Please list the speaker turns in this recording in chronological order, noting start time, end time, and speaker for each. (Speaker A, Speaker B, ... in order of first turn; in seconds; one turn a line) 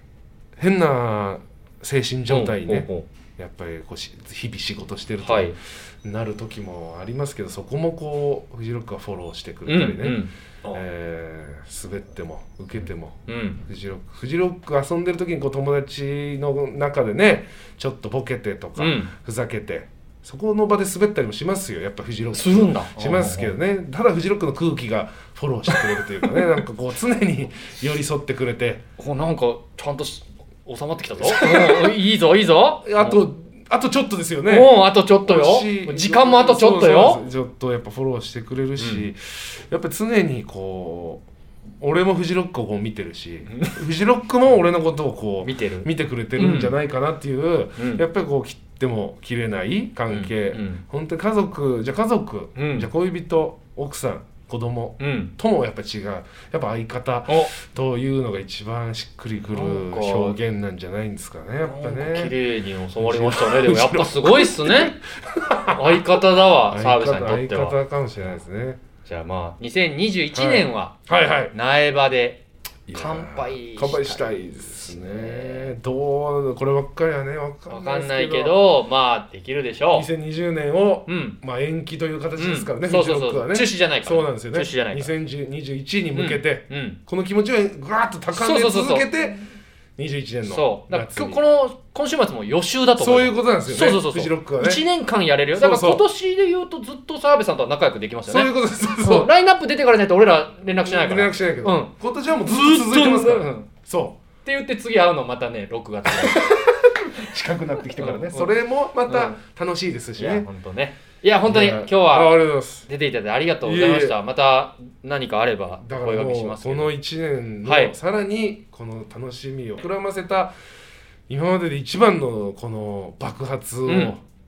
Speaker A: 0.6-28.8
Speaker B: 2.3-3.1
Speaker B: 5.2-5.5
Speaker B: 9.7-10.8
Speaker B: 13.3-13.6
Speaker B: 18.8-19.1
Speaker B: 22.3-23.5
Speaker B: 29.0-33.2
Speaker A: 31.2-32.0
Speaker A: 32.8-41.3
Speaker B: 34.5-37.2
Speaker B: 38.8-39.1
Speaker A: 41.8-62.4
Speaker B: 43.5-43.8
Speaker B: 45.4-46.8
Speaker B: 47.8-48.0
Speaker B: 50.1-50.8
Speaker B: 52.6-52.9
Speaker B: 55.0-55.3
Speaker B: 59.4-60.4
Speaker B: 61.6-65.0
Speaker A: 63.0-66.1
Speaker B: 65.7-68.4
Speaker A: 66.7-68.8
Speaker B: 69.0-71.0
Speaker A: 70.3-71.5
Speaker B: 71.5-75.8
Speaker A: 72.9-78.7
Speaker B: 77.7-80.1
Speaker A: 79.9-89.4
Speaker B: 81.1-81.4
Speaker B: 82.4-85.1
Speaker B: 86.1-87.0
Speaker B: 88.3-89.1
Speaker A: 90.0-91.4
Speaker B: 90.5-103.7
Speaker A: 93.0-94.9
Speaker A: 95.5-96.0
Speaker A: 98.3-99.3
Speaker A: 100.8-104.2
Speaker B: 104.4-106.5
Speaker A: 106.1-110.5
Speaker B: 108.0-108.5
Speaker B: 109.1-109.4
Speaker B: 110.2-116.9
Speaker A: 111.4-112.9
Speaker A: 113.6-114.2
Speaker A: 115.8-120.5
Speaker B: 117.6-118.0
Speaker A: 121.3-124.2
Speaker B: 123.8-124.2